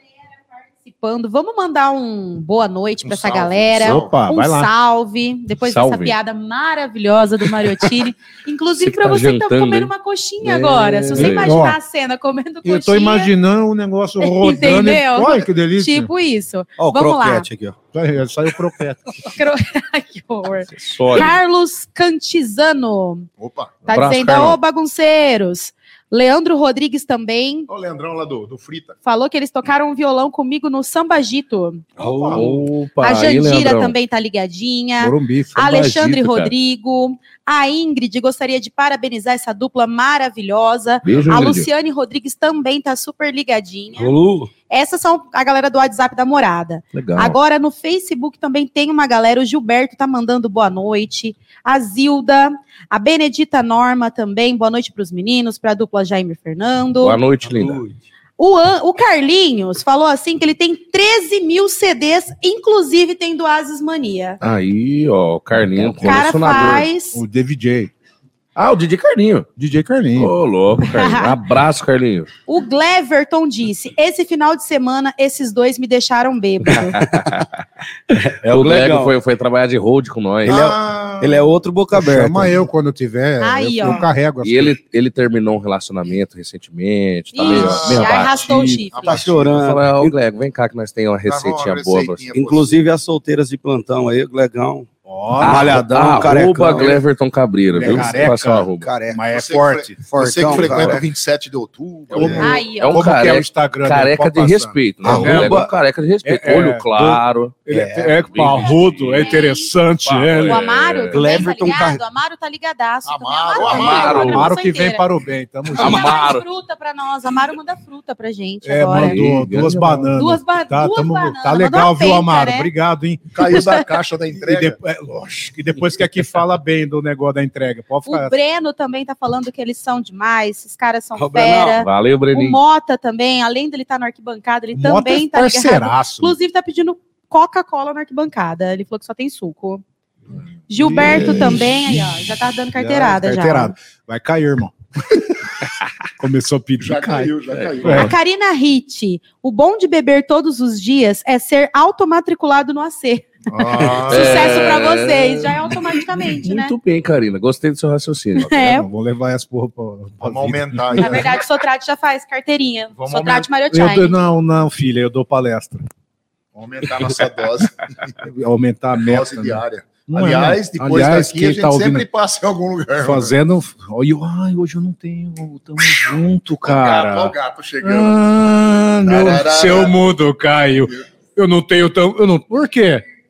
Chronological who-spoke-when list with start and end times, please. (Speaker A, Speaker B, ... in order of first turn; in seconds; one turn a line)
Speaker A: 0.8-13.3
Speaker B: 3.0-4.2
Speaker C: 3.8-4.7
Speaker D: 5.6-6.1
Speaker D: 8.8-11.5
Speaker C: 11.1-11.8
Speaker C: 12.6-16.1
Speaker A: 14.2-17.5
Speaker E: 16.8-17.8
Speaker C: 17.9-19.3
Speaker A: 19.2-23.3
Speaker D: 20.7-21.4
Speaker B: 23.4-23.9
Speaker D: 23.8-24.6
Speaker A: 23.9-27.6
Speaker B: 27.7-29.0
Speaker A: 29.0-31.8
Speaker E: 32.0-32.5
Speaker C: 32.0-32.4
Speaker B: 32.2-32.6
Speaker D: 32.3-33.9
Speaker A: 33.0-44.1
Speaker C: 35.0-35.8
Speaker D: 35.6-36.5
Speaker D: 41.0-41.7
Speaker E: 44.0-44.5
Speaker A: 44.7-57.2
Speaker D: 46.9-47.4
Speaker D: 57.0-57.8
Speaker E: 57.4-58.0
Speaker A: 58.4-64.4
Speaker D: 64.4-66.9
Speaker A: 66.0-67.2
Speaker C: 67.1-67.9
Speaker D: 68.5-69.5
Speaker C: 69.6-70.3
Speaker D: 70.2-72.3
Speaker A: 70.9-71.3
Speaker A: 72.5-77.0
Speaker D: 76.8-77.5
Speaker E: 77.0-77.4
Speaker E: 78.1-79.1
Speaker D: 78.4-80.7
Speaker B: 80.5-81.5
Speaker E: 80.5-82.6
Speaker C: 81.9-84.8
Speaker A: 83.4-84.0
Speaker D: 84.4-88.7
Speaker A: 87.3-89.2
Speaker B: 87.4-89.7
Speaker E: 89.0-90.1
Speaker D: 89.5-92.2
Speaker B: 91.2-92.8
Speaker E: 92.3-94.9
Speaker C: 95.0-96.0
Speaker D: 95.4-98.9
Speaker E: 95.4-97.0
Speaker C: 97.7-100.0
Speaker E: 97.8-99.2
Speaker B: 99.3-102.5
Speaker E: 100.0-101.0
Speaker C: 102.1-105.6
Speaker E: 102.1-102.5
Speaker A: 102.4-103.0
Speaker D: 102.7-107.6
Speaker E: 105.0-105.7
Speaker C: 106.2-110.6
Speaker E: 107.7-108.2
Speaker D: 108.2-109.5
Speaker A: 108.4-109.7
Speaker D: 110.0-111.2
Speaker A: 110.4-115.0
Speaker E: 111.1-112.0
Speaker B: 113.0-114.5
Speaker D: 113.6-114.5
Speaker C: 113.7-116.2
Speaker A: 115.7-119.2
Speaker D: 115.7-116.4
Speaker C: 118.6-123.8
Speaker D: 118.9-120.1
Speaker A: 120.1-122.7
Speaker B: 123.3-124.8
Speaker C: 124.3-128.3
Speaker A: 128.1-139.8
Speaker E: 131.2-131.8
Speaker D: 131.8-132.6
Speaker C: 134.7-136.3
Speaker A: 140.7-143.7
Speaker C: 140.8-142.2
Speaker D: 141.0-141.6
Speaker C: 142.7-145.6
Speaker C: 146.2-148.1
Speaker B: 146.8-148.1
Speaker D: 147.5-148.1
Speaker A: 148.0-153.3
Speaker B: 153.5-154.8
Speaker D: 153.9-158.7
Speaker A: 153.9-156.7
Speaker A: 158.4-158.8
Speaker C: 158.6-161.3
Speaker B: 160.2-161.4
Speaker A: 161.0-164.2
Speaker B: 162.9-163.5
Speaker C: 163.7-165.9
Speaker B: 166.5-168.2
Speaker C: 168.2-172.1
Speaker B: 169.0-173.3
Speaker C: 173.0-183.0
Speaker B: 176.6-178.3
Speaker B: 179.0-180.0